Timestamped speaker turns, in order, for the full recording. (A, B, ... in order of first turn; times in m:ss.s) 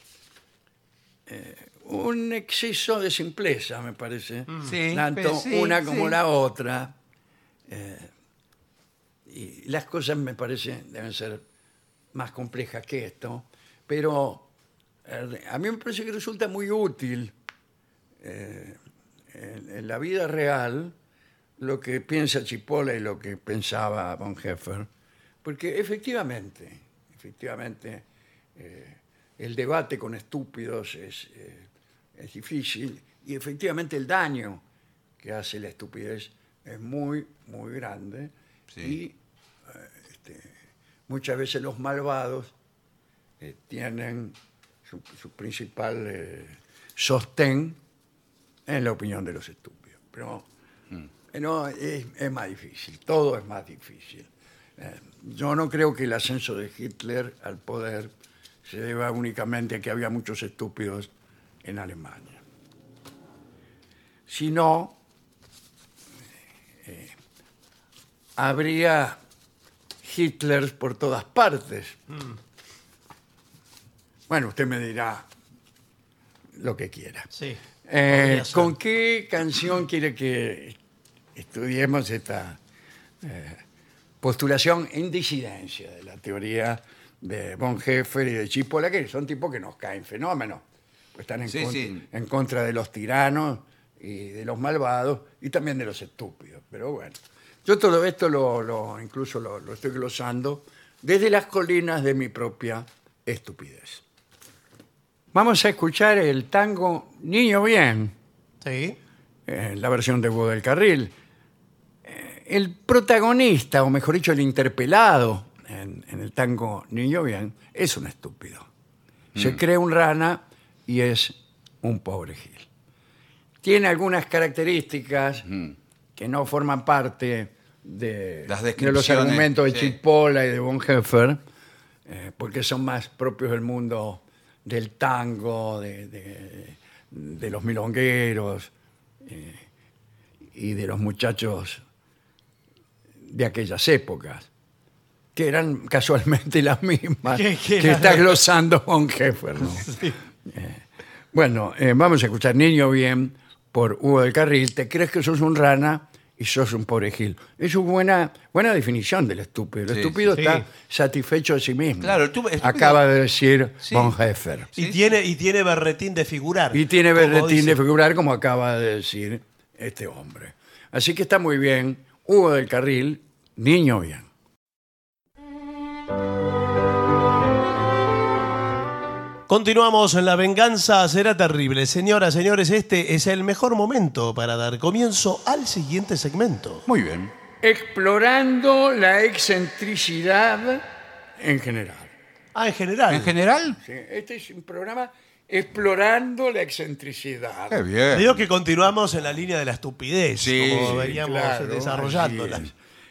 0:01.3-0:06.9 A
0:04.6-0:06.2 B
0:07.7-0:08.1 A
0:09.3-0:11.4 A
0:12.1-0:14.5 A
0:15.0-0:17.3 A
0:18.2-0:18.8 A
0:19.3-0:20.9 A
0:21.6-0:24.9 A
0:25.4-0:28.0 A
0:28.6-0:34.6 A
0:35.2-0:39.2 A
0:39.7-0:40.5 A
0:41.1-0:42.5 A
0:43.4-0:44.4 A
0:44.9-0:47.8 A
0:48.7-0:50.5 A
0:51.3-0:58.1 A
0:58.6-1:01.1 A
1:01.6-1:02.4 A
1:04.3-1:05.0 A
1:06.8-1:07.1 A
1:08.4-1:09.2 A
1:10.0-1:12.0 A
1:14.3-1:15.3 A
1:16.6-1:17.3 A
1:17.3-1:18.7 C
1:17.8-1:20.8 A
1:21.4-1:22.6 A
1:23.2-1:23.6 A
1:24.2-1:30.6 A
1:31.2-1:44.0 A
1:31.5-1:32.0 B
1:45.3-1:48.1 A
1:48.6-1:49.0 C
1:49.5-1:51.1 A
1:52.0-1:58.7 A
1:59.4-1:59.6 B
1:59.4-2:02.7 A
2:03.6-2:05.5 A
2:06.2-2:11.4 A
2:08.5-2:10.0 B
2:12.1-2:18.7 A
2:19.2-2:19.6 A
2:20.5-2:21.8 A
2:23.3-2:24.5 A
2:25.4-2:44.7 A
2:27.3-2:28.4 C
2:29.6-2:30.2 C
2:39.9-2:40.2 B
2:40.3-2:40.7 C
2:42.0-2:43.0 B
2:43.8-2:44.1 B
2:44.8-2:45.0 B
2:44.8-2:47.8 C
2:46.7-2:54.3 A
2:59.5-3:06.9 C
3:06.9-3:07.3 B
3:07.6-3:10.8 A
3:11.4-3:12.1 A
3:12.6-3:13.3 C
3:13.1-3:13.8 B
3:13.8-3:17.8 A
3:17.7-3:18.3 B
3:18.1-3:22.7 C
3:20.4-3:21.2 B
3:20.8-3:22.7 A